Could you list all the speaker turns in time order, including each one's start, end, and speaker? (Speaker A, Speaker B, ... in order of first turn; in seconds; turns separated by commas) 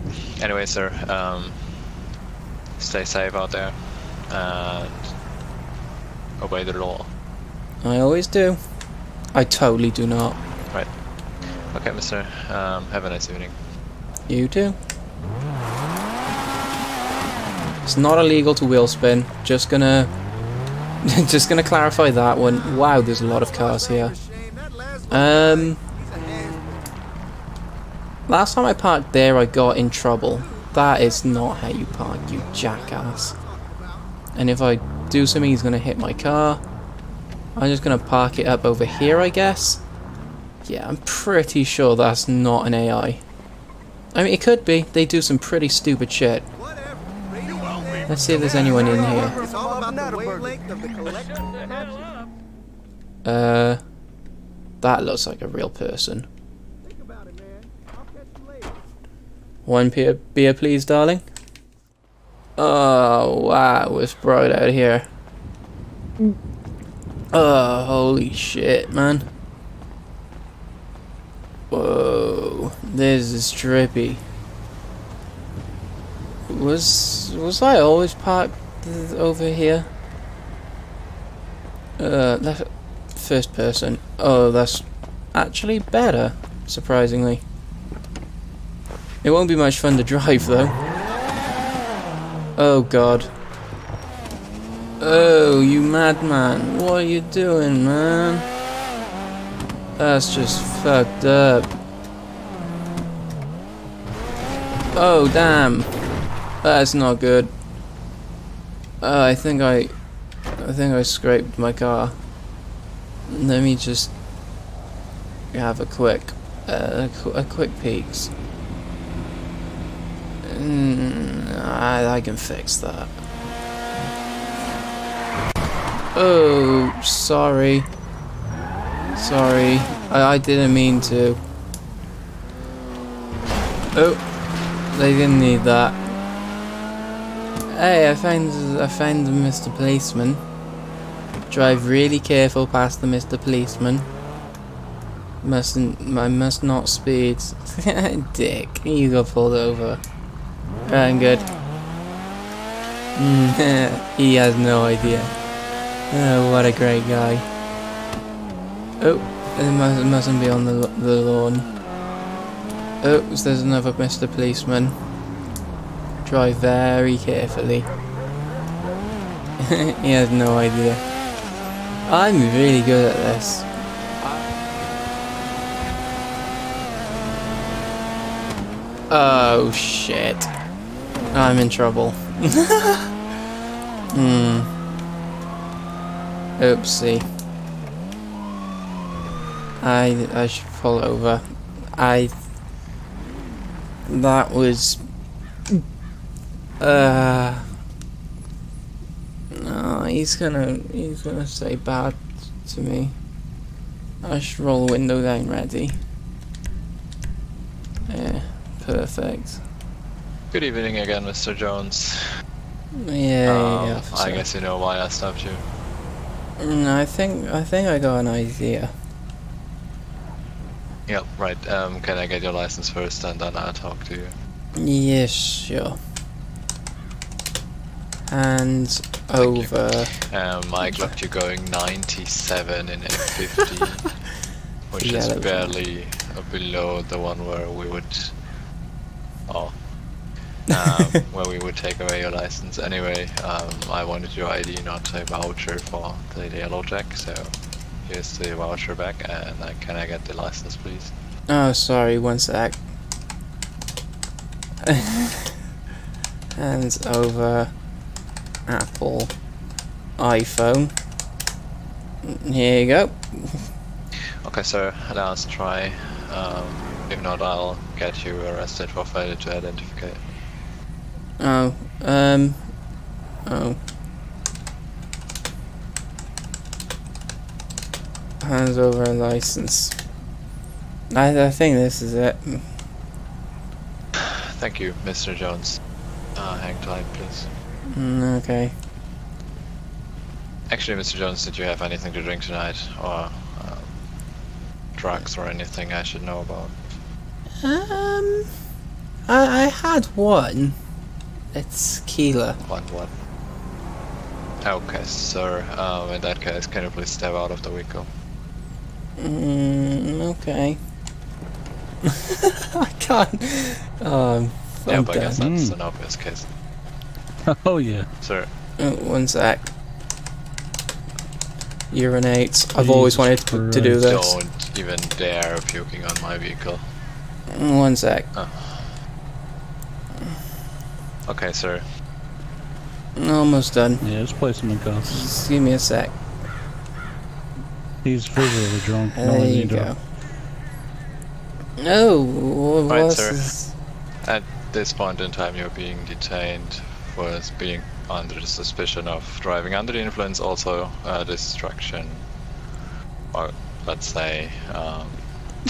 Speaker A: 0.4-1.6, Speaker A: 2.8-5.1, Speaker A: 6.4-7.1, Speaker B: 7.8-8.6, Speaker B: 9.3-10.4, Speaker A: 11.7-13.5, Speaker B: 14.3-14.8, Speaker B: 17.8-20.1, Speaker B: 21.0-24.2, Speaker B: 25.1-25.8, Speaker B: 28.3-33.4, Speaker B: 34.3-36.6, Speaker B: 37.5-39.8, Speaker B: 40.6-43.2, Speaker B: 44.1-46.5, Speaker B: 48.1-49.5, Speaker B: 53.2-53.8, Speaker B: 54.8-56.3, Speaker B: 59.6-61.2, Speaker B: 62.6-65.1, Speaker B: 67.3-69.3, Speaker B: 71.7-74.2, Speaker B: 76.5-79.9, Speaker B: 82.0-87.4, Speaker B: 89.2-90.8, Speaker B: 92.6-93.3, Speaker B: 95.0-98.5, Speaker B: 100.0-101.7, Speaker B: 104.9-105.9, Speaker B: 106.6-107.5, Speaker B: 109.0-109.9, Speaker B: 110.6-112.1, Speaker B: 113.3-114.1, Speaker B: 115.5-118.3, Speaker B: 120.4-123.1, Speaker B: 126.1-127.9, Speaker B: 129.1-131.4, Speaker B: 133.9-134.2, Speaker B: 134.9-136.0, Speaker B: 137.7-140.4, Speaker B: 141.5-144.1, Speaker B: 145.4-150.0, Speaker B: 150.8-151.5, Speaker B: 153.1-155.3, Speaker B: 156.1-157.4, Speaker B: 159.0-161.7, Speaker B: 163.0-164.9, Speaker B: 166.2-167.9, Speaker B: 169.6-171.0, Speaker B: 172.1-173.7, Speaker B: 179.1-180.5, Speaker B: 181.3-183.1, Speaker B: 184.1-184.7, Speaker B: 186.6-187.2, Speaker B: 189.8-191.4, Speaker B: 192.0-192.3, Speaker B: 194.1-195.0, Speaker B: 196.8-197.7, Speaker B: 199.5-203.1, Speaker B: 204.2-206.0, Speaker B: 208.1-209.6, Speaker A: 210.5-212.3, Speaker B: 212.9-214.4, Speaker A: 213.4-215.6, Speaker B: 216.6-218.9, Speaker A: 221.1-224.3, Speaker B: 224.8-226.0, Speaker B: 228.3-230.1, Speaker A: 229.4-234.2, Speaker A: 234.9-238.3, Speaker B: 235.0-235.7, Speaker A: 239.5-239.9, Speaker A: 240.7-247.5, Speaker A: 248.1-251.1, Speaker B: 251.5-252.8, Speaker B: 254.8-255.5, Speaker B: 256.6-257.7, Speaker B: 258.7-259.3, Speaker B: 260.2-260.9, Speaker B: 262.2-263.6, Speaker A: 264.4-270.2, Speaker B: 271.4-272.7, Speaker B: 273.4-273.8, Speaker B: 278.4-279.9, Speaker B: 281.1-282.6, Speaker A: 284.1-285.8, Speaker A: 286.3-287.5, Speaker B: 287.9-288.7, Speaker A: 290.7-294.0, Speaker A: 294.9-296.8, Speaker B: 297.6-298.5, Speaker B: 299.3-300.8, Speaker B: 301.5-302.6, Speaker A: 302.6-303.1, Speaker A: 304.6-308.1, Speaker B: 309.2-310.8, Speaker B: 312.0-315.4, Speaker A: 314.9-316.5, Speaker C: 315.4-315.8, Speaker C: 317.4-318.1, Speaker A: 318.2-318.5, Speaker B: 318.8-319.7, Speaker B: 321.9-324.4, Speaker C: 322.8-324.0, Speaker A: 323.9-326.8, Speaker B: 327.5-328.3, Speaker A: 328.3-328.9, Speaker A: 331.3-331.8, Speaker B: 333.1-334.0, Speaker C: 334.0-335.1, Speaker B: 335.1-336.1, Speaker C: 338.0-339.9, Speaker B: 339.1-340.0, Speaker B: 341.8-343.7, Speaker A: 342.9-343.5, Speaker A: 344.2-352.2, Speaker A: 353.3-355.2